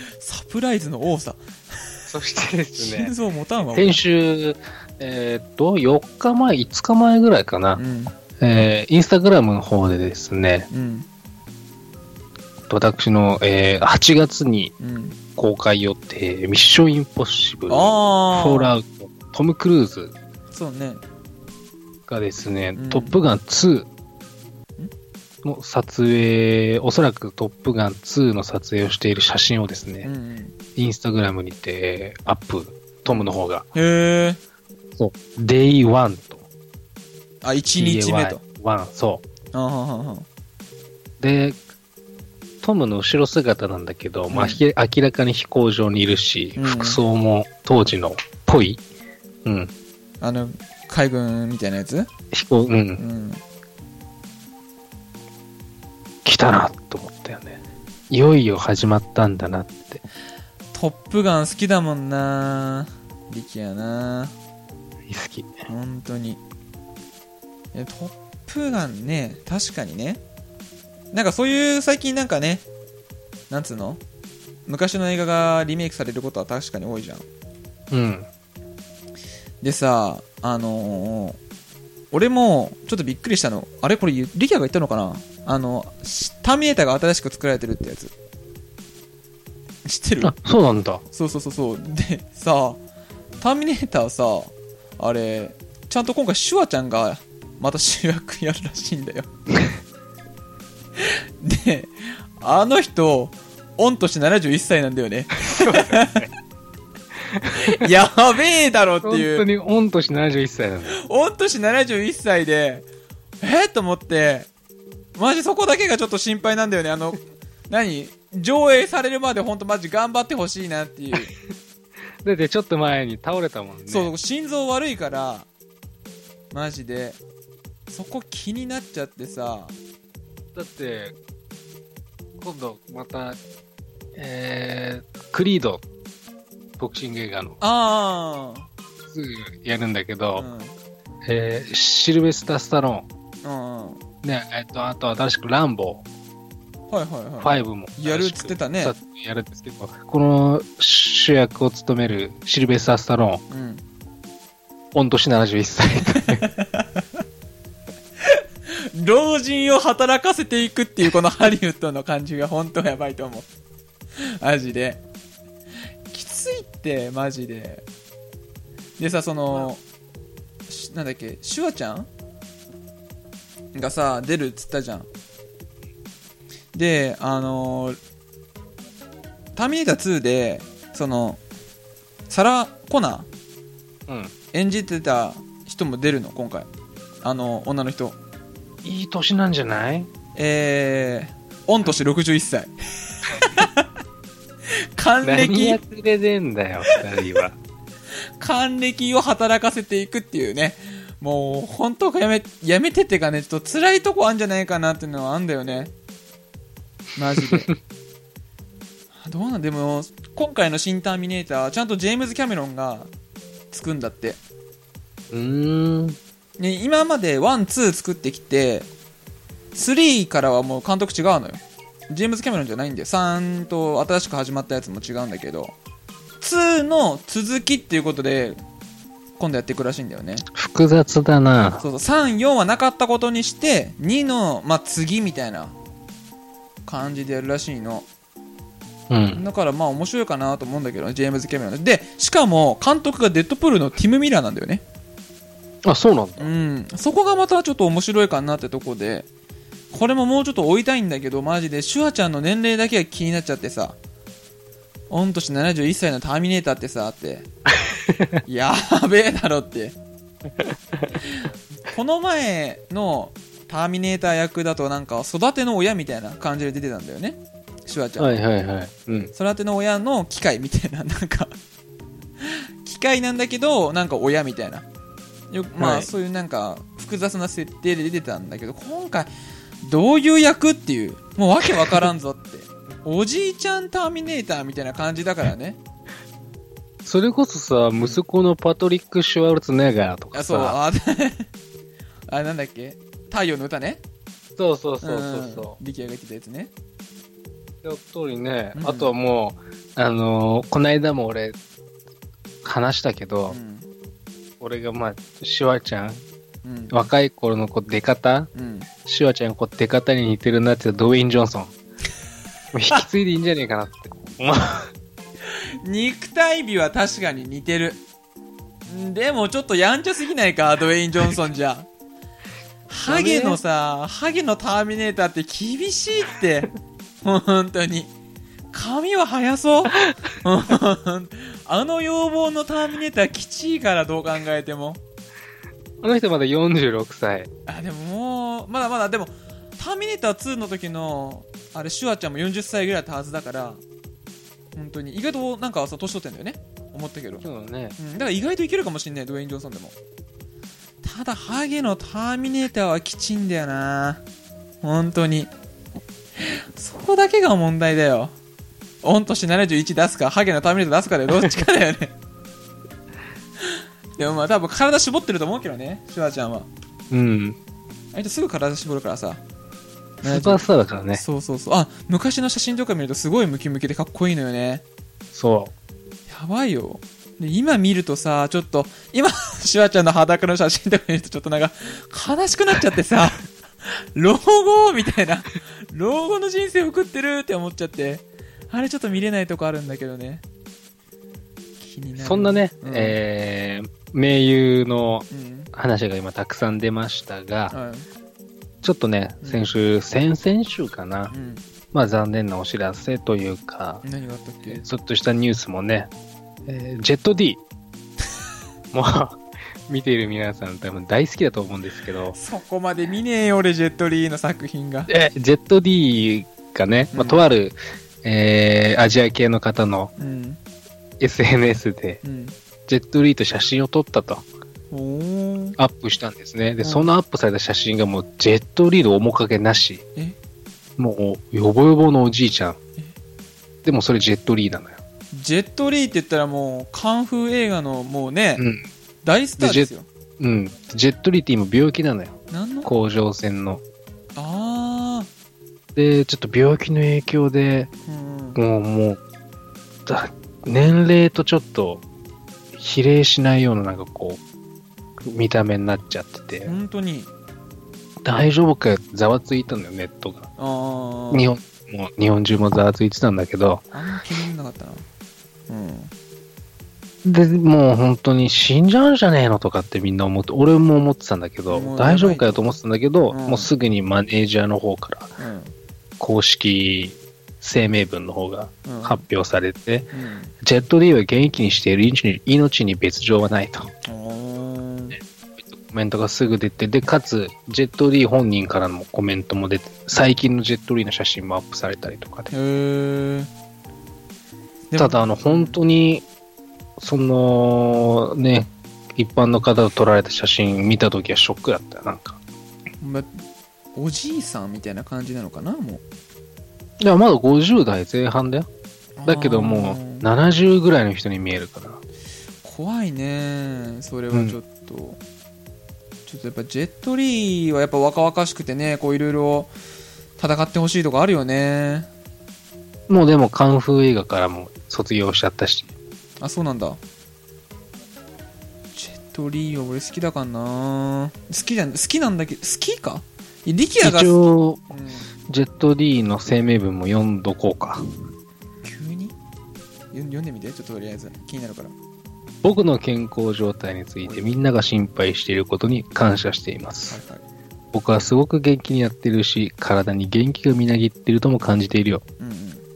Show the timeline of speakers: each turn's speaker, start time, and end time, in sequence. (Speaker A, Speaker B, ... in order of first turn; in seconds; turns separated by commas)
Speaker A: 0.2-1.8, Speaker B: 2.1-3.1, Speaker A: 2.8-4.0, Speaker B: 3.7-7.8, Speaker A: 7.8-8.1, Speaker B: 8.4-10.7, Speaker A: 10.7-11.1, Speaker B: 12.7-14.7, Speaker A: 14.8-15.2, Speaker B: 15.3-20.1, Speaker A: 17.7-18.7, Speaker A: 20.5-21.0, Speaker B: 22.1-23.9, Speaker A: 22.7-23.2, Speaker B: 25.4-30.1, Speaker A: 30.0-30.6, Speaker B: 30.7-33.6, Speaker A: 33.1-34.4, Speaker B: 35.0-36.5, Speaker A: 37.4-38.4, Speaker B: 37.8-39.2, Speaker A: 39.5-40.2, Speaker B: 41.2-41.6, Speaker B: 42.6-48.8, Speaker A: 44.3-44.6, Speaker A: 46.5-47.0, Speaker B: 49.4-49.7, Speaker A: 50.2-52.1, Speaker B: 52.3-53.0, Speaker A: 53.0-53.4, Speaker B: 56.2-60.0, Speaker A: 60.7-64.3, Speaker B: 65.1-65.5, Speaker A: 65.7-66.4, Speaker A: 67.7-70.2, Speaker A: 71.1-72.6, Speaker A: 73.5-74.0, Speaker A: 74.7-77.2, Speaker B: 77.9-78.3, Speaker A: 79.6-81.4, Speaker A: 82.1-88.1, Speaker A: 89.8-90.3, Speaker B: 90.2-91.0, Speaker A: 91.1-92.8, Speaker A: 93.4-99.3, Speaker A: 101.0-106.2, Speaker B: 105.4-106.3, Speaker B: 107.2-107.8, Speaker A: 107.7-109.4, Speaker B: 109.0-111.0, Speaker A: 111.0-112.8, Speaker A: 113.4-114.5, Speaker A: 115.2-121.3, Speaker B: 122.2-124.1, Speaker A: 123.9-125.5, Speaker A: 126.5-127.2, Speaker A: 127.9-129.7, Speaker B: 130.5-131.2, Speaker B: 132.4-133.4, Speaker B: 134.2-135.8, Speaker B: 136.8-137.6, Speaker A: 137.6-138.7, Speaker B: 139.1-140.5, Speaker A: 140.4-140.7, Speaker B: 141.2-143.1, Speaker A: 143.4-144.0, Speaker B: 144.2-146.0, Speaker A: 146.9-148.9, Speaker B: 147.4-153.4, Speaker A: 153.5-153.8, Speaker B: 154.9-156.5, Speaker A: 156.2-157.0, Speaker A: 158.2-163.5, Speaker A: 164.2-165.0, Speaker A: 166.1-167.8, Speaker A: 169.0-169.8, Speaker A: 170.7-172.1, Speaker A: 173.7-175.1, Speaker A: 176.7-178.0, Speaker A: 179.5-181.4, Speaker A: 182.3-183.3, Speaker B: 184.1-184.3, Speaker A: 184.5-186.7, Speaker A: 187.2-188.2, Speaker B: 188.8-190.1, Speaker A: 190.3-192.7, Speaker A: 193.2-193.9, Speaker A: 194.9-195.8, Speaker B: 195.2-197.6, Speaker A: 198.4-205.9, Speaker A: 207.2-207.7, Speaker B: 207.4-207.8, Speaker A: 209.2-213.1, Speaker A: 213.7-214.4, Speaker B: 215.3-216.2, Speaker A: 216.6-218.9, Speaker A: 219.7-225.7, Speaker A: 226.4-228.6, Speaker A: 229.4-230.4, Speaker B: 230.4-231.8, Speaker A: 231.8-235.7, Speaker A: 236.8-238.1, Speaker B: 239.1-239.4, Speaker A: 239.3-244.8, Speaker B: 245.8-246.5, Speaker A: 246.4-249.3, Speaker A: 249.9-254.0, Speaker A: 255.1-257.5, Speaker B: 257.8-258.4, Speaker A: 258.4-259.9, Speaker B: 260.6-261.2, Speaker A: 261.9-268.4, Speaker B: 268.2-269.3, Speaker A: 269.3-271.5, Speaker A: 272.4-274.9, Speaker A: 275.5-285.8, Speaker B: 275.8-276.1, Speaker B: 287.1-290.8, Speaker A: 290.3-291.5, Speaker A: 292.3-294.0, Speaker B: 294.6-295.8, Speaker A: 295.0-296.7, Speaker B: 297.8-301.6, Speaker A: 298.7-299.1, Speaker B: 302.6-303.6, Speaker A: 303.5-303.9, Speaker B: 304.6-306.2, Speaker A: 306.6-306.9, Speaker B: 306.9-308.5, Speaker A: 308.5-308.9, Speaker B: 309.0-311.7, Speaker B: 312.7-314.9, Speaker A: 315.8-318.0, Speaker A: 318.9-321.9, Speaker A: 322.9-326.7, Speaker B: 323.0-323.6, Speaker A: 327.2-328.1, Speaker A: 328.7-335.0, Speaker B: 336.0-337.5, Speaker A: 337.7-343.8, Speaker A: 344.7-347.4, Speaker B: 347.4-348.0, Speaker A: 348.0-349.9, Speaker A: 351.0-354.2, Speaker A: 354.8-355.5, Speaker A: 356.4-358.3, Speaker A: 359.0-362.1, Speaker A: 363.6-366.7, Speaker B: 367.1-367.6, Speaker A: 368.1-369.4, Speaker A: 370.2-370.6, Speaker B: 370.2-371.2, Speaker A: 371.1-374.8, Speaker B: 375.3-375.7, Speaker A: 376.3-390.4, Speaker A: 391.8-393.2, Speaker B: 392.2-397.8, Speaker A: 395.3-395.7, Speaker A: 397.7-398.1, Speaker B: 398.8-401.3, Speaker A: 401.3-401.6, Speaker B: 401.9-404.0, Speaker A: 404.0-404.8, Speaker B: 404.7-406.1, Speaker B: 406.7-407.6, Speaker B: 408.9-412.4, Speaker A: 412.3-415.1, Speaker B: 415.1-420.1, Speaker A: 417.1-417.4, Speaker A: 420.2-420.6, Speaker B: 421.2-422.2, Speaker A: 422.2-422.5, Speaker B: 422.9-424.4, Speaker A: 424.9-425.8, Speaker B: 425.8-430.0, Speaker A: 426.8-427.1, Speaker B: 431.0-432.8, Speaker B: 433.8-435.0, Speaker A: 435.3-438.6, Speaker B: 438.6-438.9, Speaker A: 439.2-440.1, Speaker B: 439.6-443.8, Speaker A: 442.5-442.9, Speaker A: 444.4-445.3, Speaker B: 445.9-447.9, Speaker A: 448.1-448.6, Speaker B: 448.6-449.2, Speaker B: 450.1-452.0, Speaker B: 452.7-454.4, Speaker B: 455.2-456.8, Speaker A: 456.6-457.3, Speaker B: 458.2-460.5, Speaker A: 460.6-461.5, Speaker B: 461.3-463.9, Speaker A: 463.9-465.0, Speaker A: 465.7-466.1, Speaker B: 467.2-475.4, Speaker A: 471.7-472.6, Speaker A: 473.3-473.7, Speaker A: 475.4-475.7, Speaker B: 476.2-483.9, Speaker A: 478.9-479.2, Speaker A: 480.1-480.5, Speaker A: 484.0-485.1, Speaker B: 485.1-492.5, Speaker A: 492.5-493.5, Speaker A: 494.9-495.8, Speaker B: 495.0-496.2, Speaker B: 497.0-502.4, Speaker A: 503.0-503.3, Speaker A: 503.9-506.0, Speaker B: 507.0-508.7, Speaker A: 509.2-510.3, Speaker B: 509.2-512.0, Speaker A: 512.6-515.2, Speaker B: 514.3-514.6, Speaker A: 516.2-519.7, Speaker A: 520.4-522.1, Speaker B: 523.1-525.9, Speaker A: 526.4-527.0, Speaker A: 528.9-534.4, Speaker B: 534.0-534.8, Speaker A: 534.9-535.3, Speaker B: 535.5-538.0, Speaker A: 538.8-539.3, Speaker A: 540.1-541.9, Speaker B: 542.6-547.2, Speaker A: 544.2-544.5, Speaker A: 547.1-547.4, Speaker B: 547.9-552.2, Speaker A: 552.4-552.8